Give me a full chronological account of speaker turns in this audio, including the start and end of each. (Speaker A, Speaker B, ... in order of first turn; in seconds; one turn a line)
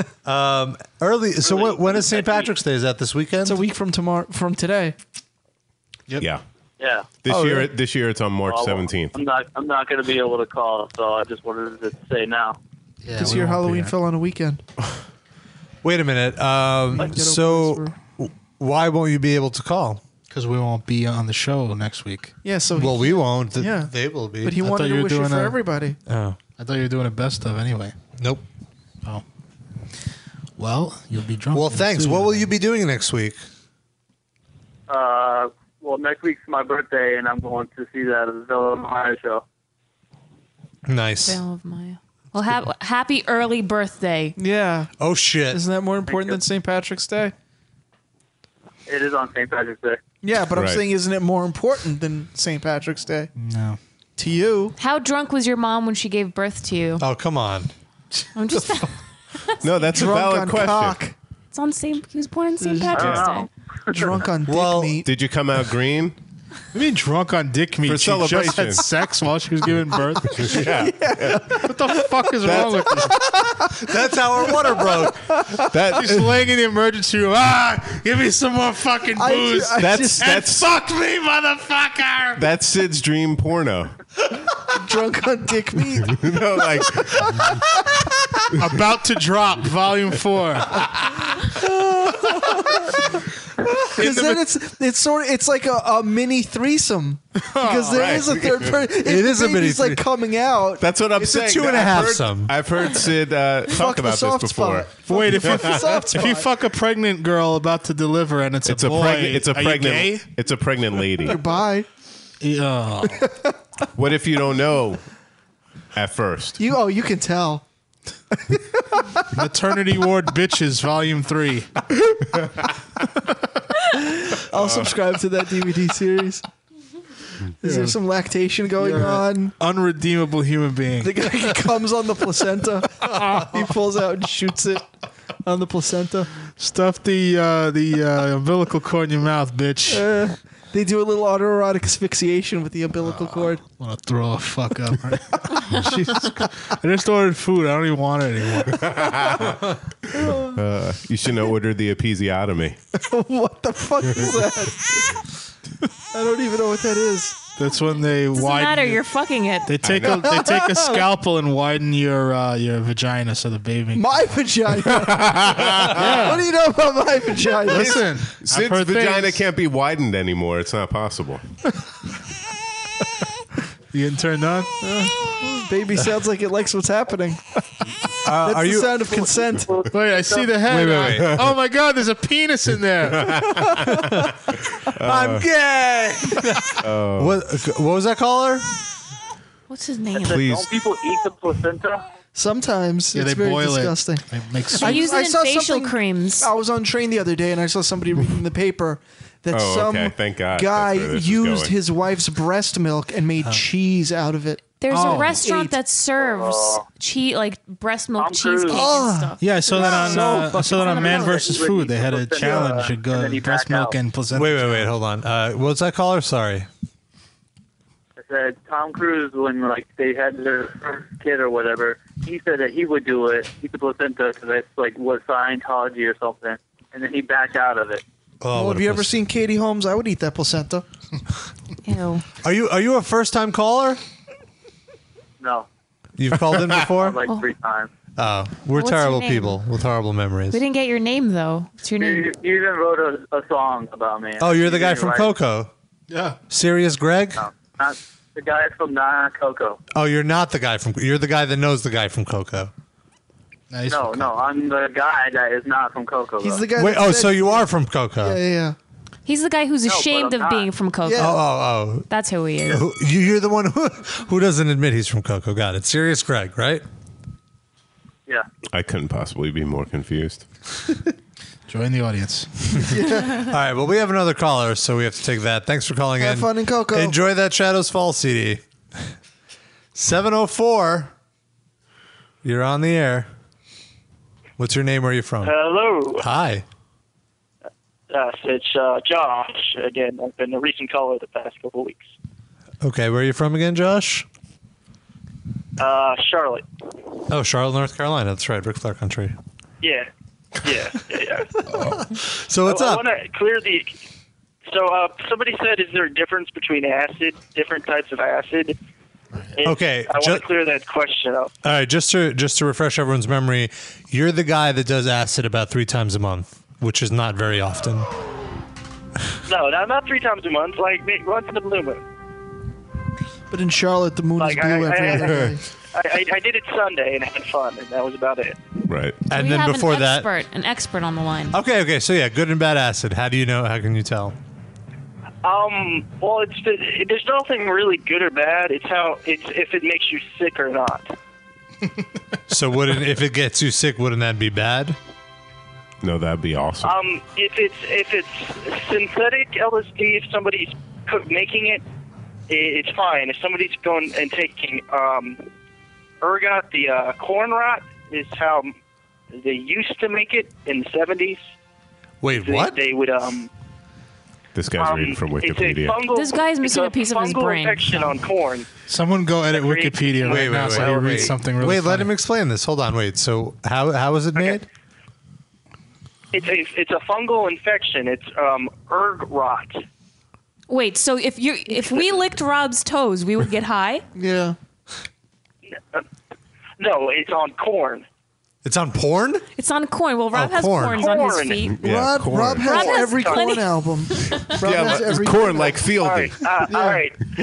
Speaker A: 0.2-3.6
Speaker B: 1.8-2.5
Speaker C: 3.4-4.9
Speaker D: 6.8-7.1
Speaker E: 7.2-9.2
Speaker A: 7.3-7.7
Speaker D: 8.5-12.6
Speaker F: 13.0-13.9
Speaker C: 13.2-14.6
Speaker A: 15.8-20.0
Speaker C: 17.0-17.9
Speaker F: 20.3-22.3
Speaker C: 22.4-26.0
Speaker A: 22.8-24.6
Speaker F: 24.6-25.6
Speaker A: 26.1-26.4
Speaker F: 26.6-27.9
Speaker A: 28.2-28.4
Speaker F: 30.6-32.5
Speaker A: 31.5-33.4
Speaker D: 34.9-39.4
Speaker A: 40.9-41.4
Speaker G: 41.2-44.4
Speaker C: 44.4-44.9
Speaker A: 45.0-45.6
Speaker C: 45.5-47.3
Speaker D: 46.1-46.4
Speaker D: 48.9-50.0
Speaker C: 50.2-53.3
Speaker E: 50.5-50.8
Speaker F: 53.4-53.8
Speaker C: 54.2-54.7
Speaker G: 54.8-57.0
Speaker A: 57.0-57.7
Speaker G: 58.3-59.6
Speaker E: 59.6-61.0
Speaker C: 59.9-61.1
Speaker G: 61.5-63.5
Speaker C: 62.6-63.1
Speaker D: 63.0-64.0
Speaker E: 63.0-63.3
Speaker C: 63.9-65.0
Speaker A: 64.5-65.0
Speaker E: 65.0-66.2
Speaker F: 66.7-70.6
Speaker E: 67.9-68.8
Speaker E: 70.3-71.7
Speaker C: 70.4-72.0
Speaker F: 71.6-73.2
Speaker E: 72.4-73.0
Speaker C: 73.0-73.9
Speaker A: 73.8-75.3
Speaker C: 74.7-75.6
Speaker E: 75.7-76.3
Speaker F: 75.9-82.4
Speaker C: 79.2-80.4
Speaker E: 79.8-80.7
Speaker E: 82.4-83.9
Speaker C: 84.7-86.4
Speaker E: 86.1-87.3
Speaker C: 87.0-88.1
Speaker F: 88.6-90.9
Speaker C: 91.6-93.1
Speaker F: 93.9-94.5
Speaker C: 93.9-100.8
Speaker F: 97.4-98.3
Speaker E: 97.9-98.8
Speaker A: 99.0-100.0
Speaker E: 100.8-106.0
Speaker A: 101.2-102.5
Speaker C: 103.7-106.5
Speaker F: 105.1-110.2
Speaker E: 108.7-111.4
Speaker C: 111.2-111.9
Speaker F: 112.4-113.3
Speaker E: 114.0-115.0
Speaker E: 115.9-116.6
Speaker C: 116.6-117.6
Speaker C: 118.3-119.3
Speaker F: 119.3-121.7
Speaker C: 123.9-126.4
Speaker C: 127.6-129.5
Speaker F: 127.6-128.0
Speaker F: 128.8-131.3
Speaker C: 131.0-134.9
Speaker C: 135.4-136.3
Speaker F: 136.6-140.1
Speaker C: 139.9-143.6
Speaker F: 143.0-148.8
Speaker C: 145.7-146.3
Speaker E: 148.9-149.4
Speaker C: 150.2-150.5
Speaker E: 150.5-152.8
Speaker C: 153.0-155.2
Speaker C: 156.1-157.4
Speaker F: 157.6-159.0
Speaker G: 158.3-159.7
Speaker F: 159.7-164.1
Speaker E: 159.8-160.3
Speaker C: 160.1-161.1
Speaker C: 163.9-168.0
Speaker E: 165.0-166.2
Speaker F: 165.9-166.4
Speaker F: 167.6-169.4
Speaker E: 167.7-171.4
Speaker F: 173.9-174.7
Speaker C: 174.8-177.5
Speaker A: 178.2-179.0
Speaker C: 178.3-179.8
Speaker D: 179.2-180.5
Speaker F: 179.9-183.4
Speaker A: 180.7-181.4
Speaker E: 183.1-183.7
Speaker E: 185.0-185.4
Speaker A: 185.0-188.7
Speaker E: 186.8-187.4
Speaker G: 189.7-190.5
Speaker D: 190.2-192.0
Speaker E: 190.2-190.7
Speaker C: 192.3-204.6
Speaker F: 193.1-195.1
Speaker G: 194.8-196.5
Speaker E: 199.5-201.8
Speaker G: 204.8-211.5
Speaker F: 204.9-205.4
Speaker D: 206.2-206.8
Speaker D: 208.2-208.9
Speaker A: 208.7-209.3
Speaker F: 209.4-214.9
Speaker D: 209.9-213.9
Speaker A: 214.3-216.7
Speaker D: 218.2-228.0
Speaker A: 228.4-229.1
Speaker C: 228.5-230.8
Speaker G: 231.8-232.2
Speaker A: 232.4-234.0
Speaker D: 235.4-235.7
Speaker A: 236.2-237.2
Speaker D: 236.9-237.9
Speaker A: 238.2-240.6
Speaker G: 238.8-239.6
Speaker G: 240.5-242.3
Speaker D: 242.0-245.3
Speaker A: 244.4-245.7
Speaker F: 246.1-246.4
Speaker A: 246.5-247.4
Speaker D: 247.3-249.8
Speaker A: 249.9-252.7
Speaker F: 253.7-254.3
Speaker D: 253.9-256.7
Speaker C: 256.4-257.6
Speaker A: 256.8-258.4
Speaker C: 258.2-258.8
Speaker G: 259.2-261.4
Speaker D: 259.9-260.7
Speaker C: 261.0-261.4
Speaker A: 261.2-262.1
Speaker G: 262.1-262.8
Speaker A: 262.6-266.8
Speaker E: 268.7-270.4
Speaker F: 271.7-272.7
Speaker C: 272.8-273.4
Speaker A: 273.3-278.6
Speaker C: 276.2-277.1
Speaker A: 279.9-281.1
Speaker A: 282.4-283.3
Speaker A: 284.6-285.6
Speaker B: 285.4-286.2
Speaker A: 286.2-286.6
Speaker B: 288.1-292.1
Speaker A: 292.8-294.2
Speaker B: 295.8-296.6
Speaker A: 297.3-299.4
Speaker B: 299.8-300.1
Speaker B: 300.6-301.5
Speaker A: 301.7-303.1
Speaker B: 302.6-304.0
Speaker B: 304.6-308.7
Speaker B: 309.6-311.5
Speaker A: 309.6-310.4
Speaker A: 311.6-318.1
Speaker B: 319.4-322.0
Speaker C: 323.5-325.6
Speaker B: 324.4-328.6
Speaker E: 328.9-329.2
Speaker A: 329.3-330.3
Speaker G: 329.3-331.6
Speaker A: 331.5-334.3
Speaker B: 335.4-341.1
Speaker A: 342.5-345.0
Speaker E: 346.0-347.0
Speaker B: 346.8-351.8
Speaker B: 352.5-355.5
Speaker B: 356.2-358.7
Speaker B: 359.3-361.4
Speaker A: 362.2-362.8
Speaker B: 362.3-363.5
Speaker E: 364.5-366.1
Speaker B: 364.8-368.7
Speaker G: 366.1-368.1
Speaker F: 368.9-372.1
Speaker B: 369.5-371.3
Speaker A: 370.2-374.6
Speaker B: 376.3-379.8
Speaker G: 380.7-384.0
Speaker C: 384.1-384.6
Speaker B: 386.8-388.0
Speaker A: 388.6-389.4
Speaker G: 389.6-391.8
Speaker A: 390.3-391.1
Speaker B: 390.9-391.7
Speaker E: 391.7-392.9
Speaker C: 391.8-395.9
Speaker B: 392.6-393.6
Speaker G: 392.6-394.6
Speaker E: 394.6-396.6
Speaker B: 395.9-397.2
Speaker C: 396.7-397.0